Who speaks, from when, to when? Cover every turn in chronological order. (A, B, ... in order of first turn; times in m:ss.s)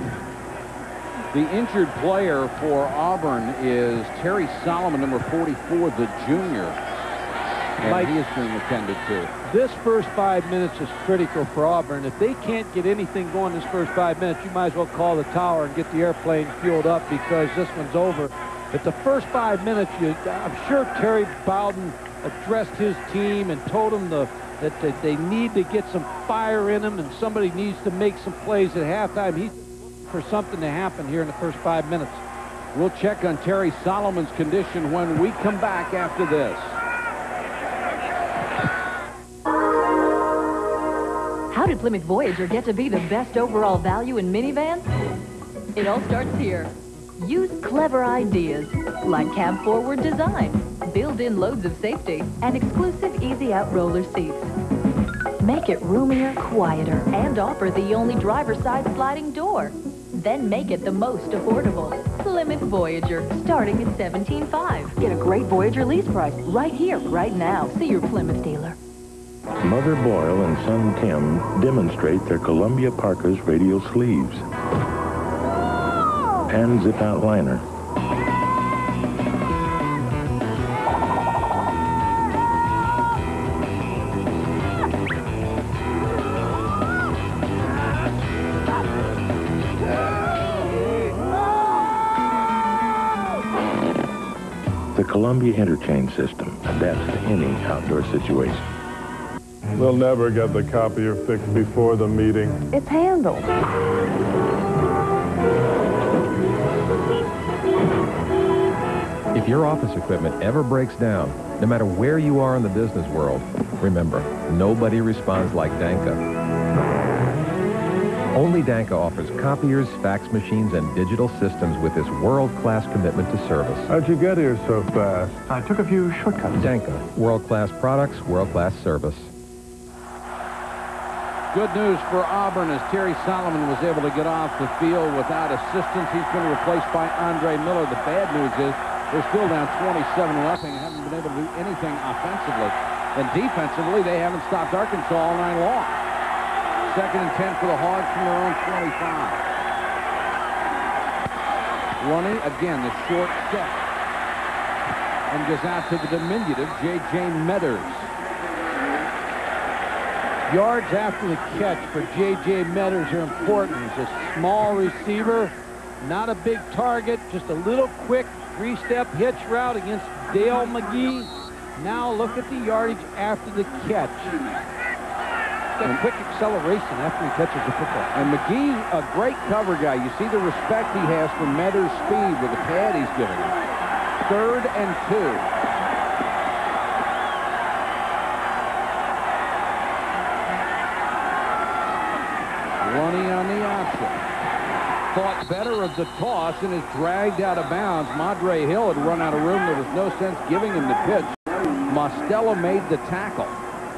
0:01.3-0:06.8 A
0:07.8-0:09.3 A
0:07.8-0:08.2 B
0:09.4-0:32.2 B
0:32.7-0:36.8 A
0:41.5-0:44.9 C
0:45.7-0:54.5 C
0:55.4-1:08.8 C
1:09.6-1:14.4 D
1:16.5-1:17.6 D
1:34.9-1:38.6 D
1:39.8-1:42.6 E
1:42.7-1:43.5 C
1:49.3-1:56.2 F
1:58.3-2:03.9 F
2:03.9-2:05.7 E
2:06.5-2:09.3 F
2:11.5-2:26.0 A
2:26.8-2:29.4 A
2:32.0-2:33.8 A
2:35.3-2:38.1 A
2:40.5-2:54.4 B
2:55.8-2:58.1 B
2:58.1-3:03.6 A
3:04.2-3:05.4 A
3:12.8-3:14.2 A
3:15.1-3:23.6 A